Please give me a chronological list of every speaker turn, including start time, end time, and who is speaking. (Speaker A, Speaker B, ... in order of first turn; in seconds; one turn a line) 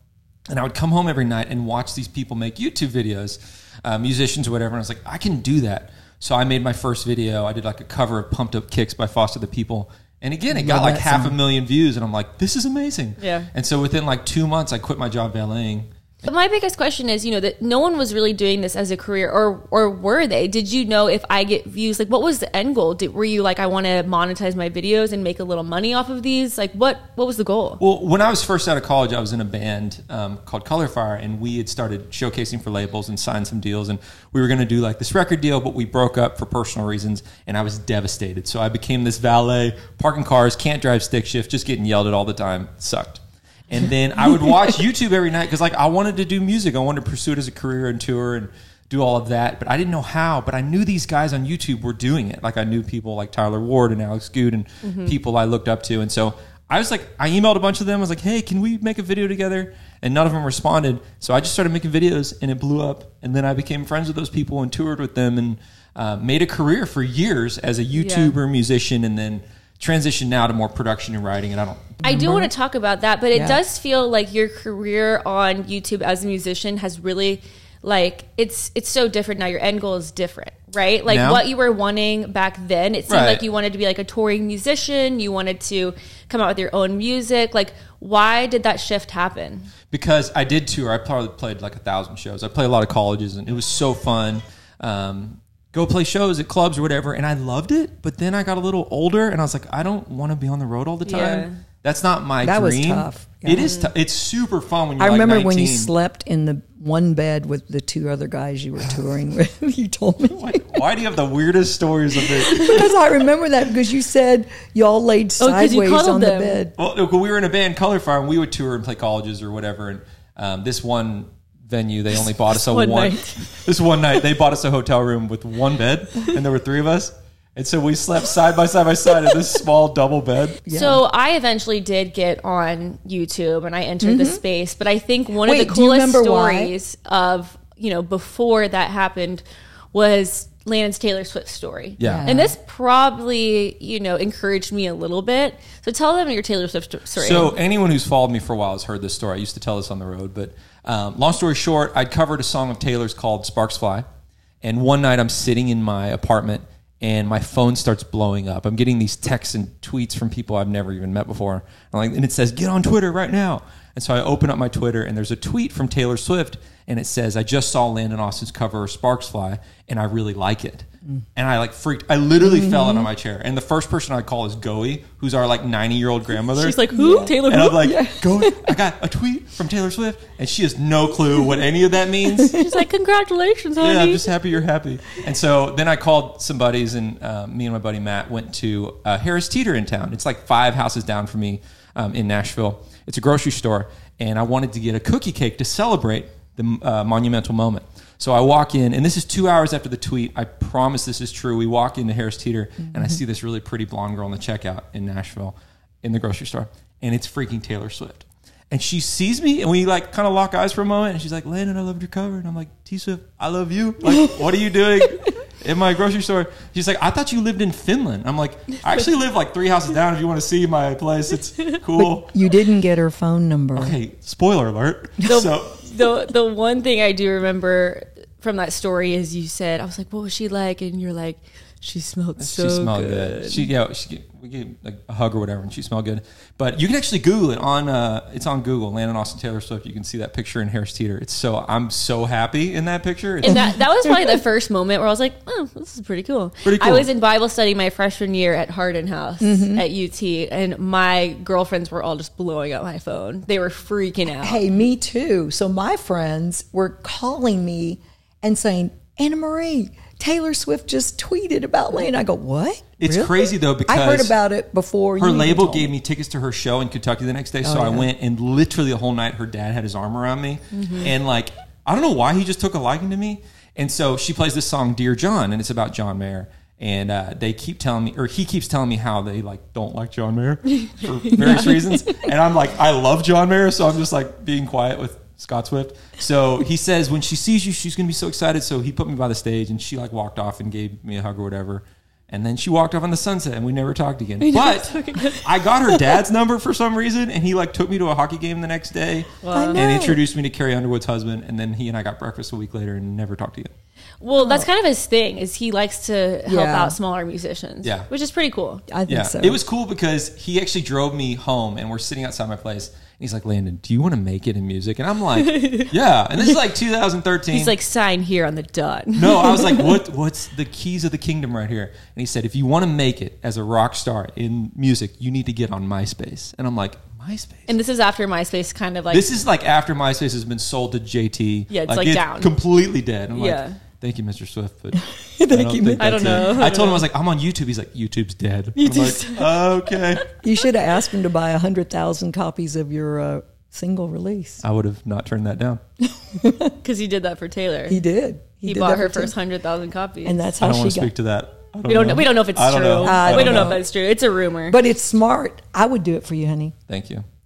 Speaker A: 0.5-15.9
Speaker B: 10.5-11.4
Speaker C: 13.2-13.5
Speaker C: 16.2-27.8
Speaker A: 27.8-72.0
Speaker C: 54.8-55.1
Speaker C: 67.9-68.3
Speaker C: 72.0-89.7
Speaker B: 72.0-72.5
Speaker B: 73.3-73.6
Speaker A: 81.1-81.4
Speaker A: 83.1-83.4
Speaker A: 89.9-105.9
Speaker C: 101.0-101.6
Speaker B: 102.4-103.7
Speaker C: 103.6-103.9
Speaker B: 105.0-110.8
Speaker A: 110.3-112.9
Speaker B: 112.4-116.7
Speaker C: 115.4-116.6
Speaker A: 116.8-130.6
Speaker C: 122.5-123.5
Speaker B: 130.7-131.0
Speaker C: 130.7-147.5
Speaker B: 134.0-134.4
Speaker B: 135.4-136.7
Speaker A: 142.0-142.3
Speaker B: 142.0-142.5
Speaker A: 147.2-154.1
Speaker A: 154.6-182.6
Speaker B: 172.4-173.1
Speaker C: 176.5-177.9
Speaker B: 176.9-178.8
Speaker B: 182.4-182.7
Speaker C: 182.5-184.2
Speaker A: 183.8-222.3
Speaker B: 221.9-223.9
Speaker A: 223.7-225.8
Speaker C: 225.2-233.7
Speaker A: 232.4-243.7
Speaker C: 243.4-254.6
Speaker B: 243.5-244.4
Speaker A: 246.6-247.1
Speaker B: 249.4-249.8
Speaker B: 254.4-265.9
Speaker A: 263.0-264.3
Speaker A: 265.2-303.7
Speaker B: 267.6-268.1
Speaker C: 270.7-271.1
Speaker C: 280.9-281.8
Speaker B: 281.4-281.9
Speaker C: 294.4-295.4
Speaker C: 299.4-299.8
Speaker B: 299.5-300.2
Speaker C: 304.2-308.8
Speaker B: 304.4-304.7
Speaker B: 306.4-306.9
Speaker A: 307.8-308.1
Speaker B: 308.9-309.6
Speaker A: 309.1-317.7
Speaker C: 315.4-315.9
Speaker C: 317.5-319.9
Speaker A: 319.1-327.7
Speaker C: 327.7-329.3
Speaker A: 329.1-340.2
Speaker C: 331.7-332.5
Speaker C: 333.3-333.8
Speaker B: 334.9-336.6
Speaker C: 336.0-337.0
Speaker C: 338.8-339.6
Speaker B: 340.4-344.6
Speaker A: 344.6-345.8
Speaker B: 346.1-346.8
Speaker C: 346.8-348.0
Speaker B: 347.9-349.3
Speaker C: 348.6-350.5
Speaker B: 350.2-351.1
Speaker A: 350.6-353.8
Speaker C: 351.9-354.8
Speaker B: 353.0-353.8
Speaker B: 354.7-356.7
Speaker A: 356.9-357.2